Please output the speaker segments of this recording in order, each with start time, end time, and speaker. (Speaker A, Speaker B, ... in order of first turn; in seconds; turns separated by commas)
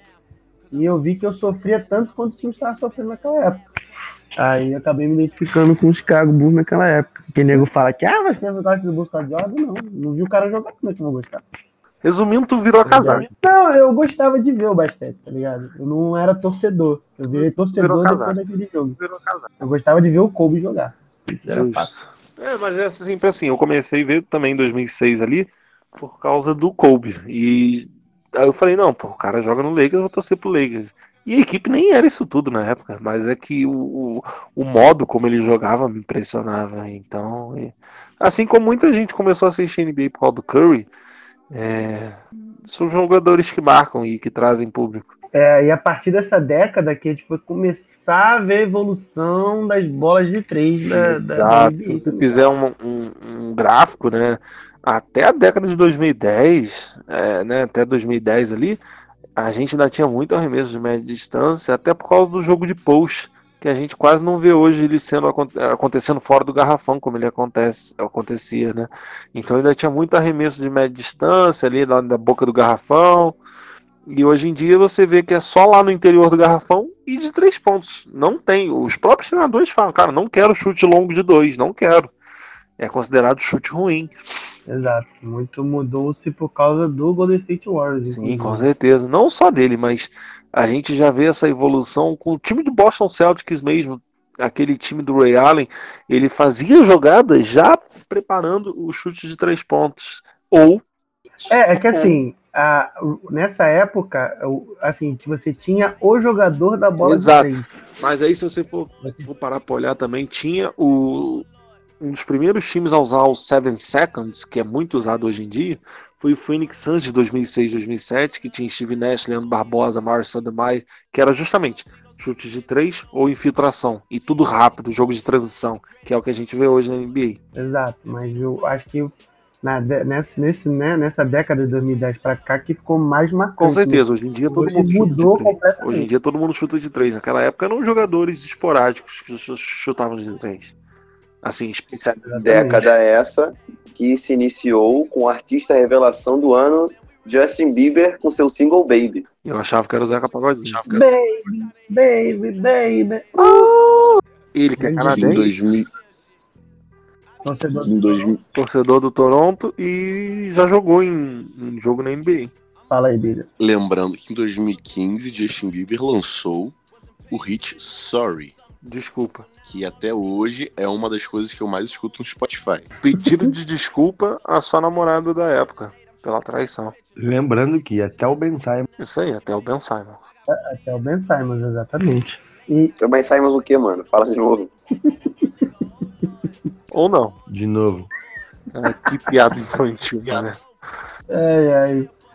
Speaker A: 0.7-3.6, Speaker A: 4.4-11.4, Speaker B: 12.0-13.3, Speaker A: 12.8-19.0, Speaker B: 17.3-18.4, Speaker B: 19.0-19.5, Speaker A: 19.6-21.9, Speaker B: 21.5-40.9, Speaker B: 41.5-45.1, Speaker A: 45.3-52.3, Speaker B: 50.9-58.8, Speaker B: 59.4-73.4, Speaker B: 74.0-82.1, Speaker B: 82.8-84.1, Speaker A: 84.7-88.7, Speaker B: 88.0-100.8, Speaker B: 101.4-102.2, Speaker A: 101.5-107.7, Speaker B: 107.0-111.5, Speaker A: 109.0-109.3, Speaker B: 112.0-127.4, Speaker A: 127.5-136.1, Speaker B: 133.6-140.7, Speaker B: 141.4-142.9, Speaker A: 142.2-142.8, Speaker C: 142.4-149.2, Speaker B: 149.4-151.0, Speaker A: 150.8-153.8, Speaker B: 153.4-153.7, Speaker B: 154.5-155.6, Speaker A: 154.8-155.5, Speaker D: 155.1-155.9, Speaker A: 157.4-158.3, Speaker D: 157.8-158.4, Speaker B: 158.5-162.5, Speaker A: 162.9-163.5, Speaker D: 163.6-166.7, Speaker D: 167.3-168.5, Speaker B: 168.8-169.4, Speaker D: 169.6-172.9, Speaker B: 173.0-176.9, Speaker A: 173.2-173.5, Speaker E: 177.2-178.8, Speaker B: 179.0-180.2, Speaker A: 180.5-182.9, Speaker C: 183.0-184.7, Speaker A: 185.1-185.7, Speaker B: 186.9-187.4, Speaker E: 187.5-188.1, Speaker B: 188.7-190.6, Speaker A: 191.3-192.1